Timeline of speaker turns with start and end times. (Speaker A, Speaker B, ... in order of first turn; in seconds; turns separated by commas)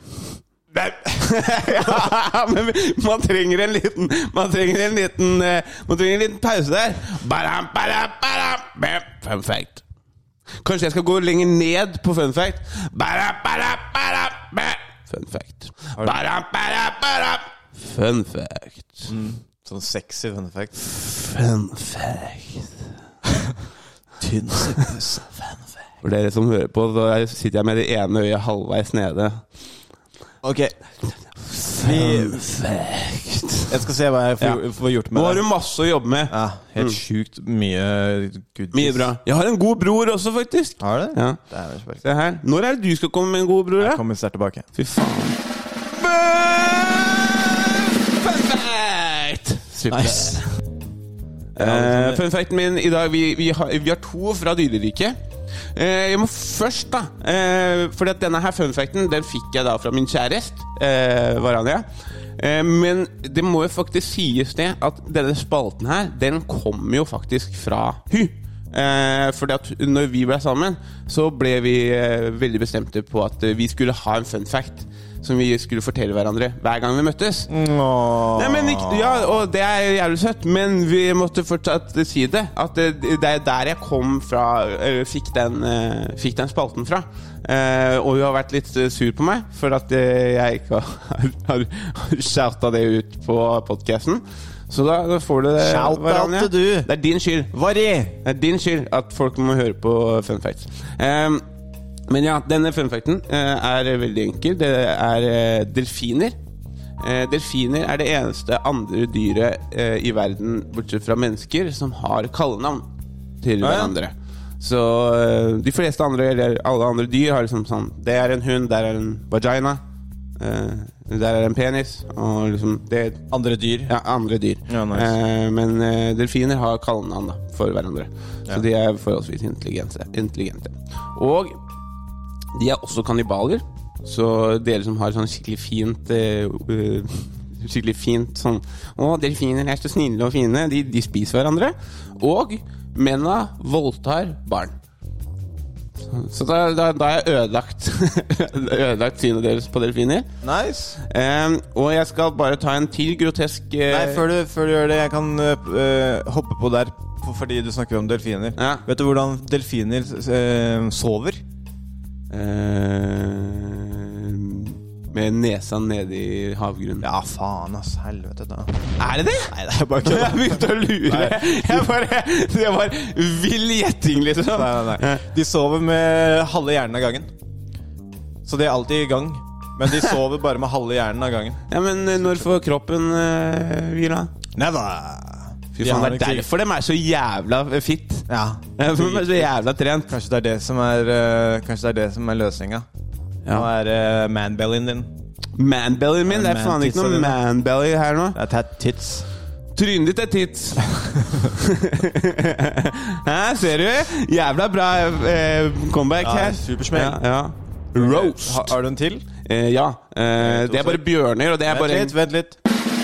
Speaker A: 0.7-9.8, Speaker A: 10.6-19.1, Speaker B: 19.1-20.8, Speaker A: 20.8-22.9, Speaker B: 24.2-25.6, Speaker A: 26.0-29.4, Speaker B: 30.4-30.8, Speaker A: 31.4-33.8, Speaker B: 31.8-32.4, Speaker B: 33.7-35.4, Speaker A: 34.4-37.0, Speaker B: 36.3-39.1, Speaker A: 38.7-41.4, Speaker B: 40.8-42.0, Speaker A: 42.0-44.0, Speaker B: 43.8-44.6, Speaker A: 44.7-50.4, Speaker B: 49.9-50.4, Speaker A: 51.5-55.2, Speaker B: 51.6-52.2, Speaker A: 55.7-77.5, Speaker B: 77.5-79.3, Speaker A: 78.3-97.5, Speaker B: 95.6-96.9, Speaker B: 97.5-98.2, Speaker A: 98.2-101.4, Speaker A: 102.1-106.4, Speaker A: 107.0-112.9, Speaker A: 113.4-119.8, Speaker B: 113.6-113.9, Speaker A: 120.4-123.2, Speaker B: 123.3-123.9, Speaker A: 123.8-131.6, Speaker B: 124.7-125.1, Speaker A: 132.5-144.8, Speaker A: 146.0-150.3, Speaker B: 150.4-151.0, Speaker A: 151.0-154.3, Speaker B: 153.9-161.4, Speaker A: 158.6-158.8, Speaker A: 162.3-167.1, Speaker B: 167.0-168.8, Speaker A: 169.0-169.5, Speaker B: 169.5-171.8, Speaker A: 170.0-175.2, Speaker B: 174.5-177.3, Speaker B: 178.4-181.6, Speaker A: 181.7-184.3, Speaker B: 184.6-186.5, Speaker A: 185.7-190.1, Speaker B: 188.3-189.5, Speaker B: 190.1-192.8, Speaker B: 193.5-195.1, Speaker A: 195.6-198.4, Speaker B: 196.3-197.4, Speaker B: 198.3-199.3, Speaker A: 199.7-208.8, Speaker B: 206.2-207.2, Speaker B: 207.9-209.2, Speaker A: 209.4-212.1, Speaker B: 210.4-211.0, Speaker B: 211.7-212.6